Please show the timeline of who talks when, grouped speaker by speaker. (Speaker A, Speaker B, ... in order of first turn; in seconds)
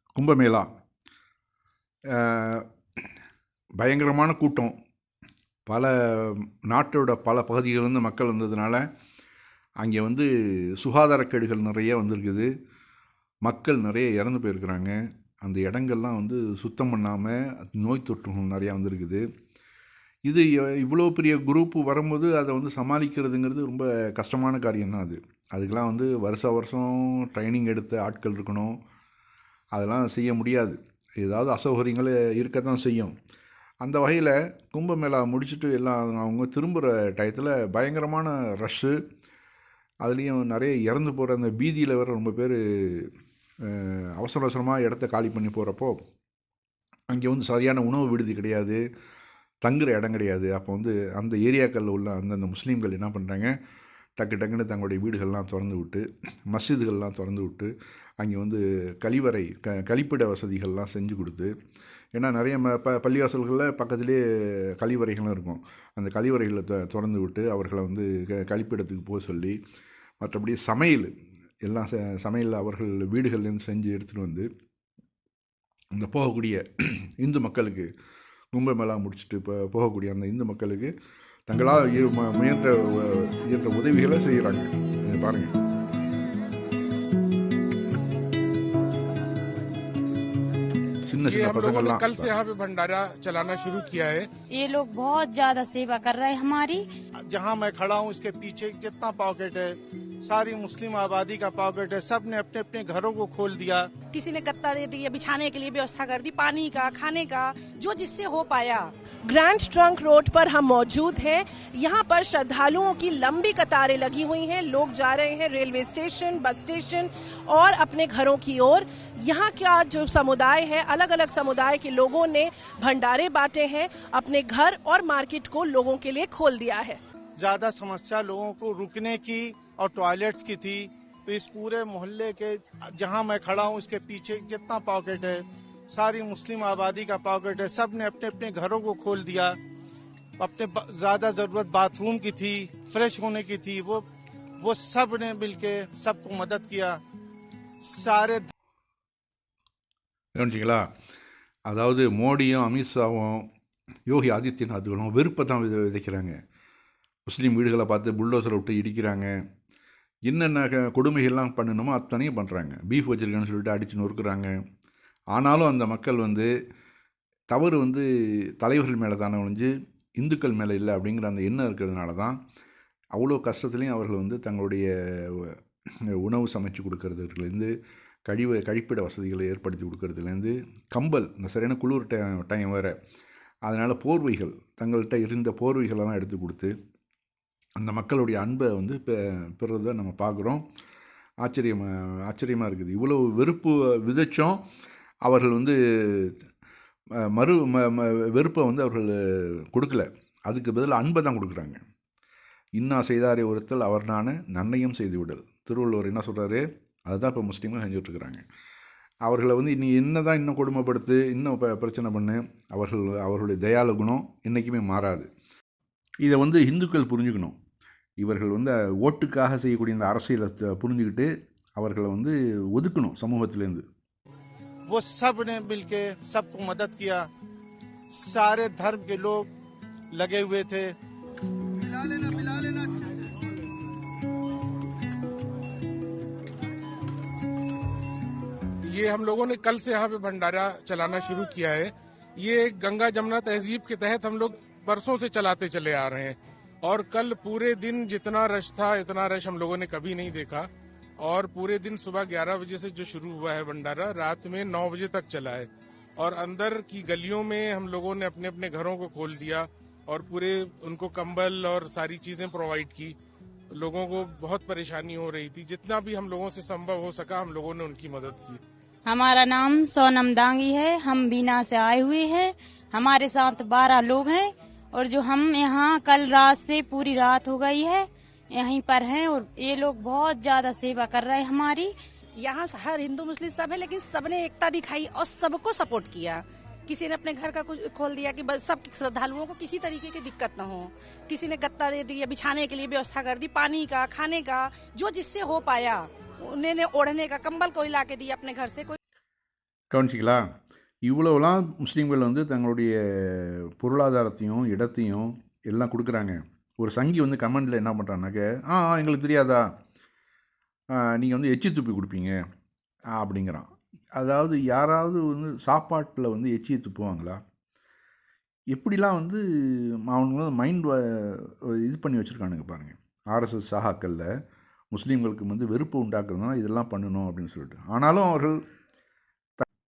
Speaker A: 0.2-0.7, 2.1-2.6, 3.8-4.7, 5.7-8.8, 9.8-10.3, 10.8-12.5, 13.4-19.2, 20.3-28.8, 29.7-33.1, 33.8-39.0, 40.0-43.1, 43.7-46.0, 47.1-48.8, 49.6-53.5, 54.2-61.5, 62.1-64.2, 64.8-69.6, 70.2-71.1, 71.6-74.5, 75.9-77.9, 78.5-80.9, 81.5-85.5, 91.1-92.3, 150.4-150.9, 151.7-153.5, 154.1-156.4, 157.3-159.3, 160.3-164.5, 165.3-166.5, 167.5-168.1, 168.6-172.4, 173.2-175.6, 176.2-177.7, 178.3-182.9, 183.7-186.7, 187.8-190.6, 191.4-194.6, 195.2-196.3, 197.2-201.8, 202.8-208.4, 209.2-215.3, 216.2-217.6, 218.2-223.8, 299.9-300.5, 301.1-309.7, 311.0-312.4, 313.2-317.4, 318.7-324.3, 324.9-328.6
Speaker B: 91.3-94.3, 238.8-263.2, 263.8-268.6
Speaker C: 94.5-96.9, 269.1-281.9
Speaker D: 97.3-103.9, 127.4-139.6, 140.4-144.0, 144.6-147.0, 147.8-148.5, 224.9-227.3, 228.1-229.5, 230.1-231.0
Speaker E: 104.1-108.9, 282.4-298.9
Speaker F: 109.3-127.0